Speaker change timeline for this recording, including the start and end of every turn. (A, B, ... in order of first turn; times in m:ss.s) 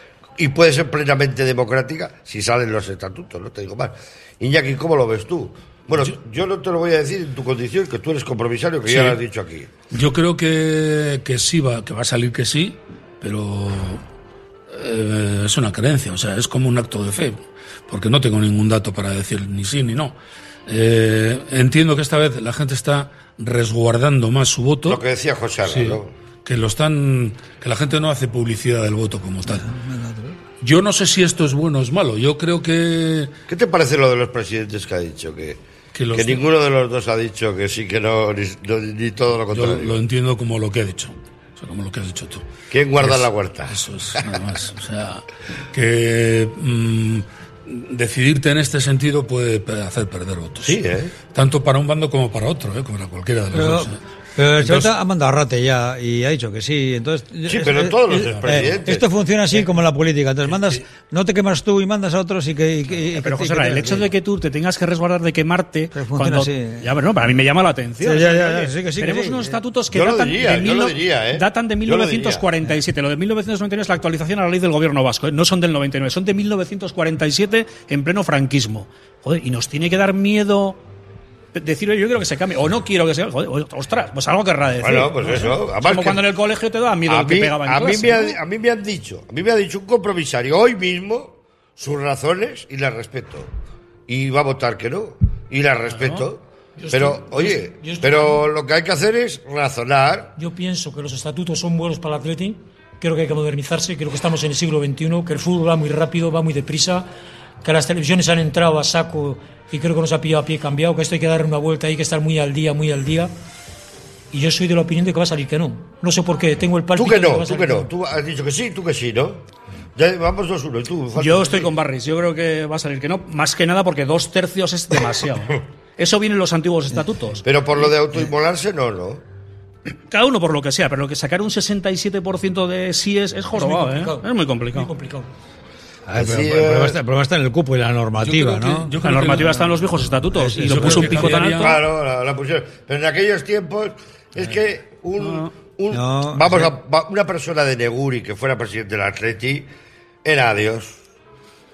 0:00.4-0:09.7 A
0:08.9-0:09.2 B
0:09.9-0:14.0 B
0:14.7-0:20.2 B
0:20.7-0:25.0 B
0:24.9-0:26.1 A
0:25.6-0:29.7 B
0:29.5-0:30.4 C
0:30.6-0:33.3 B
0:33.5-0:35.6 A
0:35.9-0:36.4 B
0:36.1-0:40.0 A
0:39.5-0:42.4 B
0:42.7-0:43.8 A
0:43.0-0:50.8 B
0:50.6-0:51.1 A
0:51.3-0:54.0 B
0:53.5-1:04.1 C
0:54.5-0:54.9 B
0:57.5-0:59.6 A
0:58.1-0:58.9 B
1:00.5-1:00.8 B
1:03.1-1:20.8 D
1:05.9-1:06.9 C
1:08.0-1:09.6 C
1:09.9-1:12.4 A
1:21.5-1:28.4 D
1:24.8-1:26.2 A
1:27.1-1:33.5 A
1:34.1-1:40.3 A
1:35.9-1:36.3 D
1:36.8-1:38.4 E
1:40.4-1:47.1 E
1:47.6-1:53.3 E
1:54.3-1:57.9 E
1:57.0-2:01.7 A
2:01.2-2:07.4 D
2:07.4-2:09.2 A
2:10.1-2:14.9 D
2:13.6-2:15.3 E
2:16.1-2:18.9 C
2:16.1-2:17.0 A
2:18.2-2:21.8 B
2:19.0-2:21.8 D
2:20.4-2:21.4 C
2:21.4-2:29.7 A
2:25.2-2:25.5 D
2:25.9-2:26.7 C
2:30.2-2:31.0 A